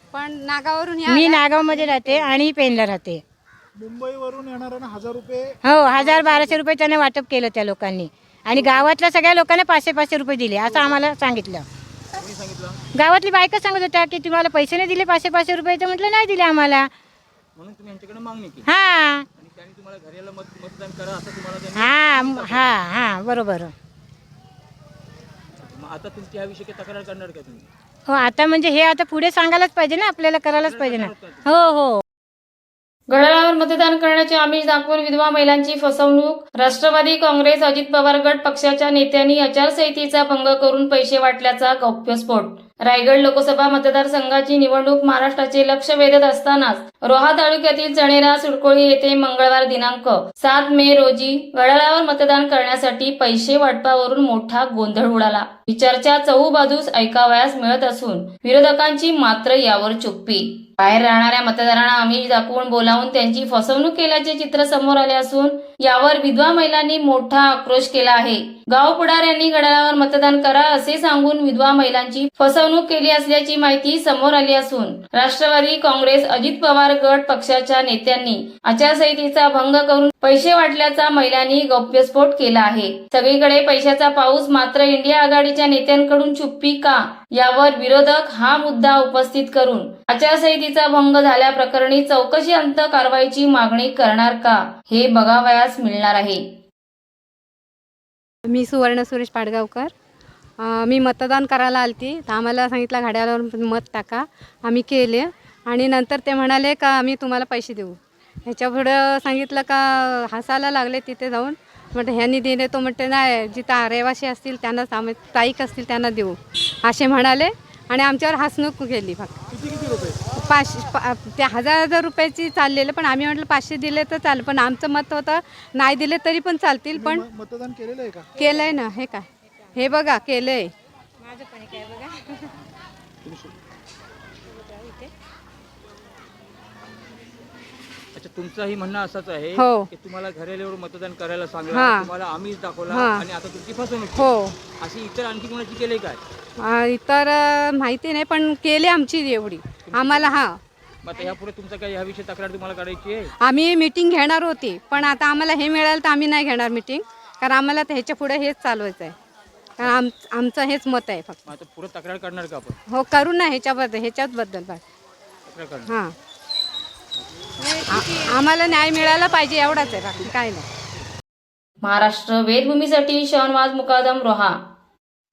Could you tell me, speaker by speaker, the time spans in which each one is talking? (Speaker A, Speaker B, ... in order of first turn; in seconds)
Speaker A: 0.1-2.3, 98.4-99.9, 100.6-119.4, 120.3-127.2, 128.3-130.7, 139.6-139.9, 141.7-142.1, 142.9-143.2, 144.1-144.6, 146.6-150.6, 153.4-159.1, 159.8-161.4, 162.9-164.8, 165.8-166.1, 167.9-170.7
Speaker B: 1.1-3.2, 5.6-11.7, 12.9-16.9, 18.6-19.3, 21.7-23.7, 28.1-32.0, 131.2-132.5, 134.5-135.1
Speaker C: 3.8-6.3, 126.9-128.4
Speaker D: 12.2-12.8, 17.5-18.7, 19.3-22.7, 25.6-27.7, 30.5-31.5, 119.5-120.2, 133.2-133.5, 138.1-146.2, 149.9-150.3, 151.0-153.3, 161.5-162.8, 165.4-165.9
Speaker E: 33.1-96.4, 171.8-174.6